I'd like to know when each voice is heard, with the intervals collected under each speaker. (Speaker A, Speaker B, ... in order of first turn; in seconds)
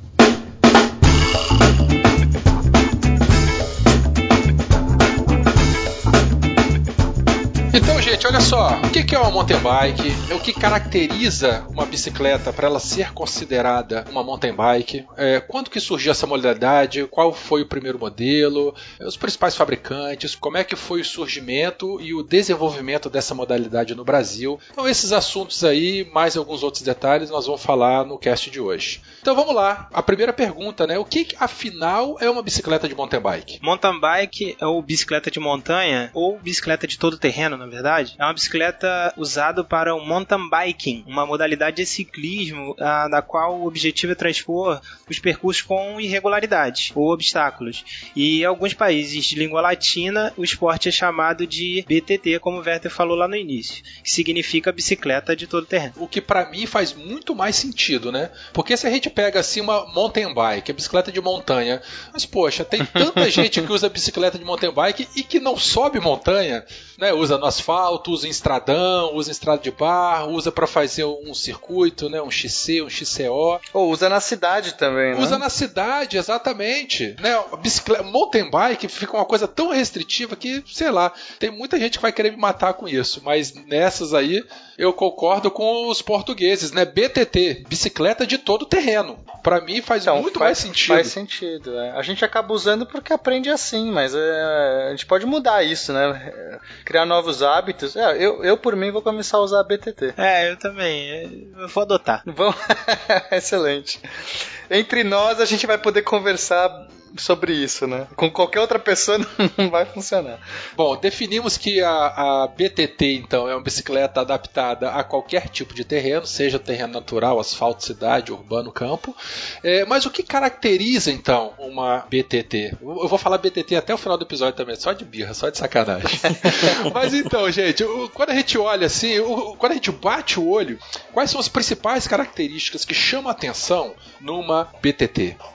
Speaker A: 7.7-33.6, 56.0-73.6, 75.1-91.1, 110.8-135.3
Speaker B: 33.6-55.9, 100.2-102.2
Speaker C: 73.7-75.4, 90.0-100.1, 102.2-104.0, 104.7-110.4